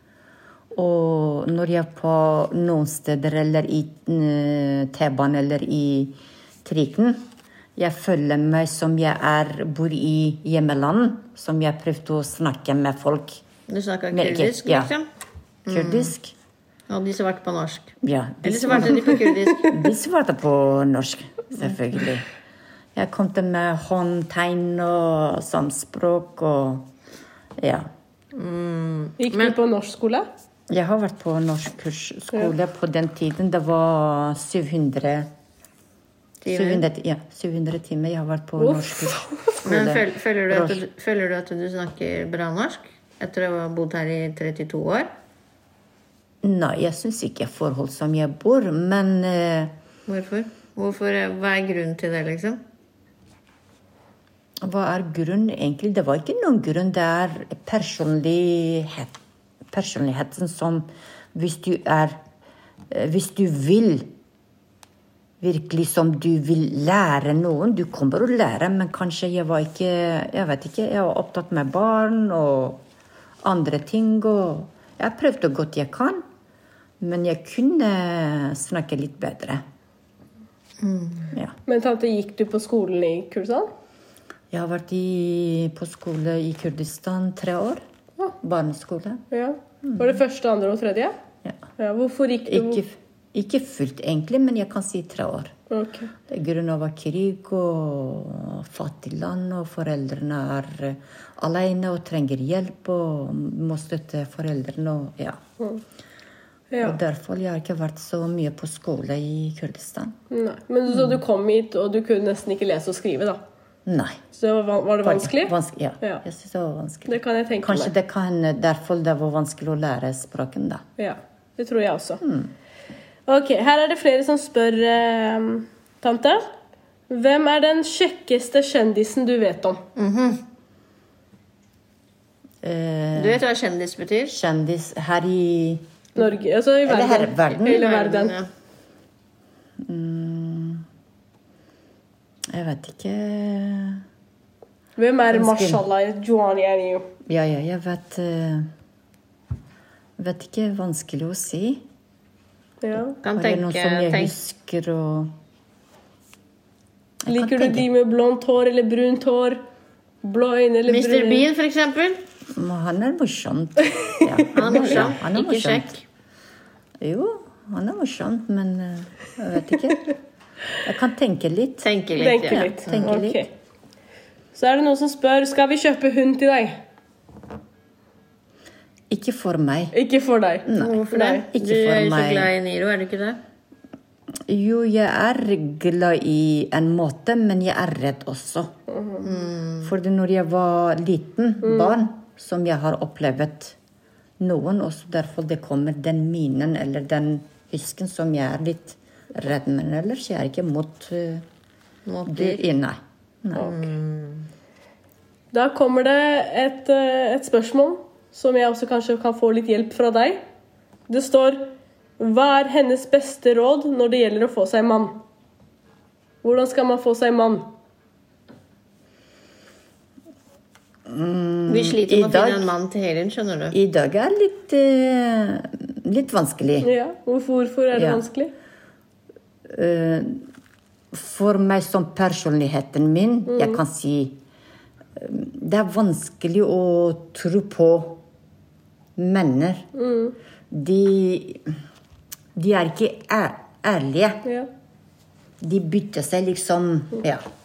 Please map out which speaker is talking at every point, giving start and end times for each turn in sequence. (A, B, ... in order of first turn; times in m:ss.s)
0:00.7-0:07.2 A
0:07.8-0:13.4 A
0:13.7-0:15.0 B
0:14.1-0:14.9 A
0:15.6-0:16.1 B
0:15.7-0:16.3 A
0:16.9-0:19.8 B
0:18.0-0:22.2 A
0:22.9-0:26.9 A
0:27.6-0:27.9 A
0:28.3-0:29.6 B
0:29.2-0:30.3 C
0:30.7-0:35.3 A
0:36.4-0:36.8 B
0:36.5-0:40.8 A
0:38.6-0:39.6 C
0:39.6-0:45.1 B
0:46.4-0:49.7 A
0:50.1-0:52.6 B
0:54.6-0:59.1 A
0:59.7-1:02.2 A
1:02.9-1:04.1 A
1:05.4-1:12.8 A
1:13.4-1:16.2 A
1:17.0-1:19.6 A
1:20.8-1:21.3 B
1:21.6-1:23.7 C
1:24.5-1:27.8 A
1:28.4-1:29.2 A
1:29.3-1:31.2 C
1:29.8-1:30.2 A
1:31.8-1:32.8 C
1:32.5-1:35.5 A
1:35.7-1:36.1 C
1:36.3-1:45.4 A
1:46.7-1:47.0 C
1:46.8-1:50.2 A
1:50.3-1:53.4 C
1:50.9-1:51.2 A
1:53.8-1:54.2 A
1:54.3-1:56.2 C
1:55.0-2:00.8 A
1:57.1-1:57.9 C
2:01.0-2:02.2 C
2:02.2-2:02.5 A
2:03.3-2:06.5 C
2:07.1-2:09.8 C
2:10.0-2:10.4 B
2:12.6-2:13.4 A
2:13.1-2:14.4 B
2:14.3-2:15.8 A
2:16.2-2:18.3 C
2:16.8-2:17.9 A
2:17.6-2:18.5 B
2:19.8-2:20.8 A
2:22.5-2:24.0 A
2:25.0-2:27.1 C
2:25.3-2:25.8 A
2:27.2-2:28.7 A
2:30.2-2:31.8 A
2:32.8-2:33.2 C
2:33.2-2:34.3 B
2:33.3-2:35.3 A
2:37.2-2:37.9 A
2:37.3-2:39.6 C
2:40.2-2:41.5 C
2:40.9-2:42.2 B
2:42.5-2:45.9 A
2:43.9-2:44.9 C
2:44.5-2:46.0 B
2:47.0-2:50.1 A
2:50.8-2:51.9 A
2:51.8-2:52.8 B
2:52.2-2:53.5 C
2:52.4-2:53.4 A
2:54.5-2:56.8 C
2:59.1-2:59.9 A
2:59.9-3:01.4 C
3:00.6-3:01.0 A
3:00.8-3:03.4 B
3:01.5-3:02.5 A
3:04.5-3:08.7 A
3:08.9-3:09.3 C
3:09.2-3:09.9 B
3:09.8-3:13.8 A
3:11.6-3:11.9 C
3:14.4-3:21.4 A
3:22.0-3:22.6 B
3:22.2-3:23.8 A
3:23.6-3:24.5 B
3:25.5-3:30.4 C
3:31.1-3:35.2 C
3:36.4-3:37.7 C
3:41.1-3:42.7 A
3:41.7-3:43.8 B
3:43.7-3:46.9 A
3:46.8-3:48.5 C
3:47.9-3:48.2 A
3:49.7-3:50.4 A
3:51.1-3:54.4 A
3:53.5-3:53.8 C
3:55.2-3:58.2 A
3:59.2-3:59.9 A
3:59.9-4:00.4 C
4:00.7-4:01.8 A
4:02.5-4:04.4 A
4:05.6-4:07.4 A